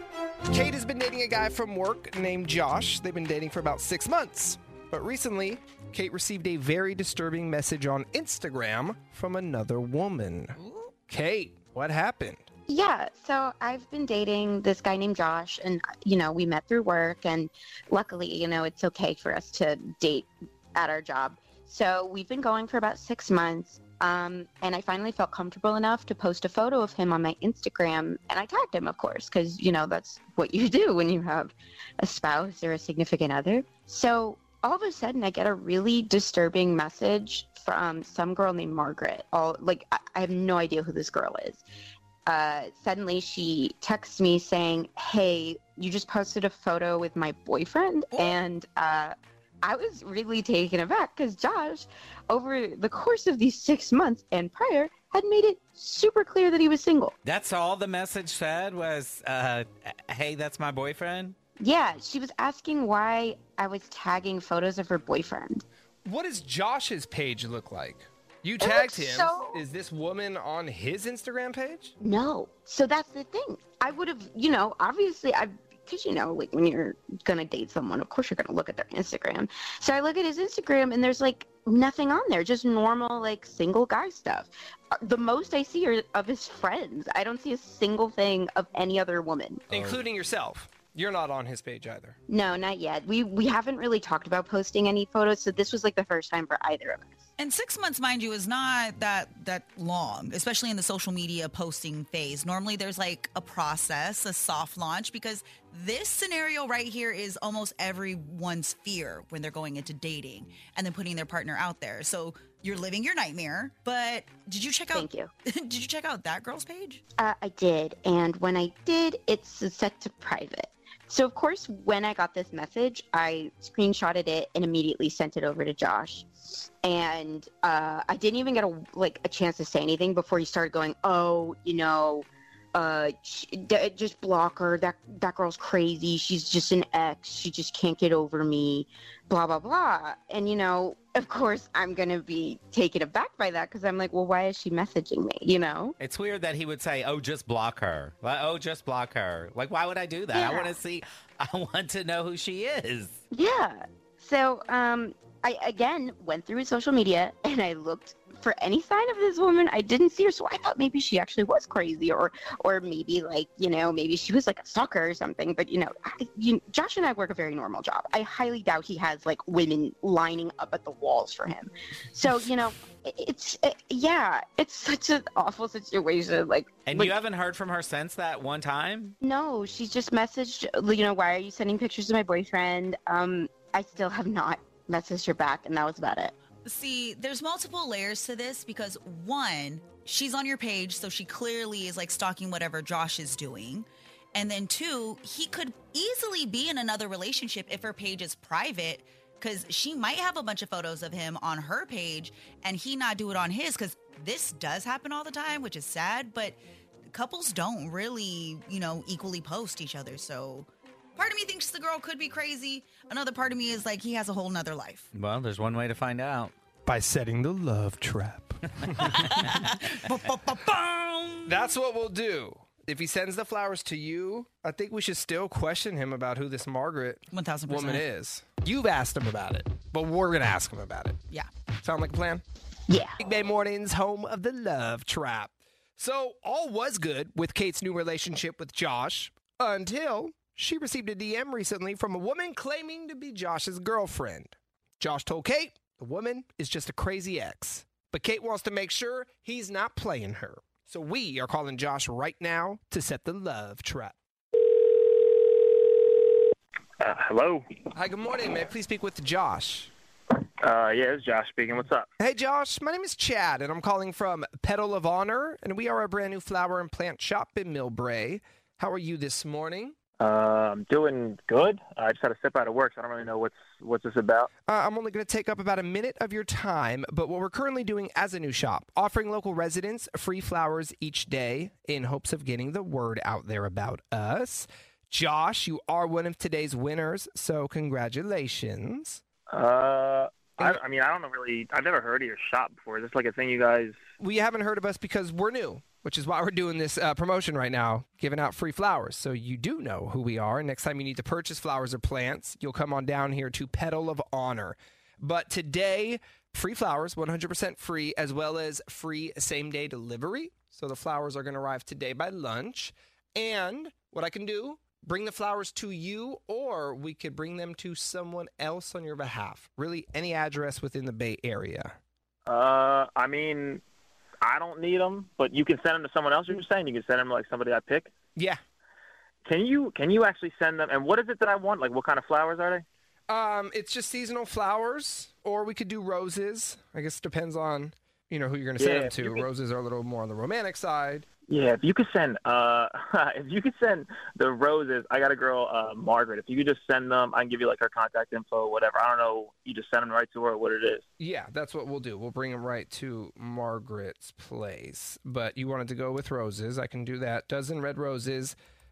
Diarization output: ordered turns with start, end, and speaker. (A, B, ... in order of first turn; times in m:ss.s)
0:00.5-0:12.4 A
0:10.6-0:10.9 B
0:12.7-0:41.6 C
0:42.3-0:57.1 C
0:48.1-0:48.4 B
0:57.2-1:01.3 D
1:01.6-1:05.6 C
1:06.0-1:11.9 A
1:08.6-1:09.6 C
1:12.0-1:29.6 C
1:29.7-1:32.2 A
1:32.3-1:37.1 C
1:37.4-1:57.0 B
1:54.9-1:55.3 C
1:57.2-2:26.0 C
2:26.0-2:33.2 D
2:30.3-2:30.7 C
2:33.3-2:57.2 C
2:56.9-2:59.2 D
2:59.2-3:06.3 C
3:06.6-3:26.6 B
3:27.1-3:35.1 B
3:35.1-3:36.5 D
3:36.8-3:39.1 A
3:39.2-3:41.5 B
3:41.4-3:51.2 A
3:47.3-3:48.1 B
3:51.8-3:52.4 A
3:52.9-3:53.2 C
3:53.2-4:14.1 A
4:14.7-4:15.5 E
4:17.0-4:17.6 E
4:17.9-4:19.9 A
4:20.6-4:22.1 E
4:22.2-4:30.0 A
4:30.2-4:34.5 E
4:34.7-4:49.2 A
4:49.5-4:54.0 E
4:54.2-5:22.0 A
5:22.4-5:23.8 E
5:24.4-5:28.1 E
5:29.4-5:32.8 E
5:33.3-5:41.2 A
5:38.8-5:39.5 E
5:41.5-5:51.0 E
5:51.2-5:58.6 A